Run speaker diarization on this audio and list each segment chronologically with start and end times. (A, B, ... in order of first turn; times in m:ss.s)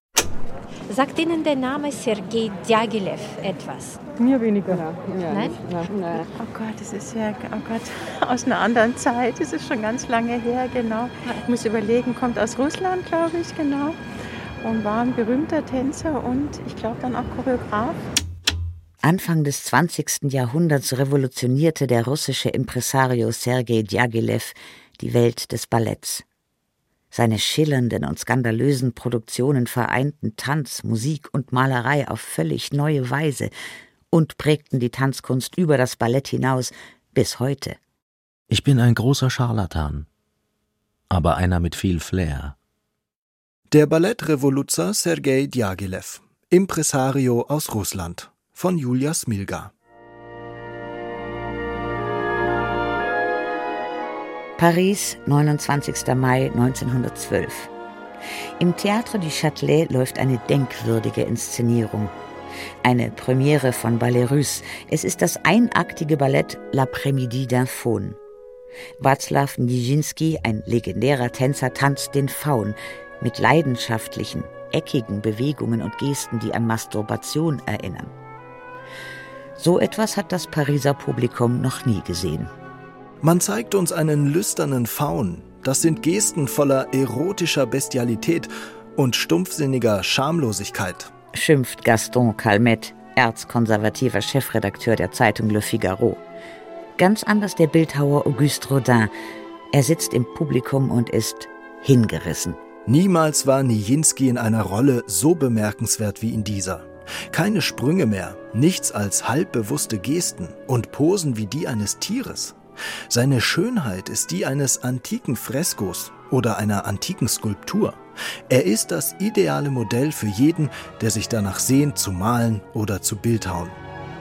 0:00.9-0:04.0 A
0:04.2-0:04.8 B
0:05.2-0:05.6 A
0:05.7-0:14.0 B
0:14.6-0:18.1 B
0:19.0-0:26.2 C
0:27.1-0:33.5 C
0:34.1-0:37.8 C
0:38.5-0:40.1 D
0:41.1-0:42.5 D
0:43.7-0:49.7 E
0:54.6-0:57.7 C
0:58.6-1:02.1 C
1:02.8-1:08.2 C
1:09.0-1:18.1 C
1:19.6-1:22.5 C
1:23.2-1:31.1 E
1:31.3-1:36.2 C
1:37.0-1:39.1 C
1:39.7-1:42.6 C
1:42.9-1:52.6 E
1:53.1-2:03.8 E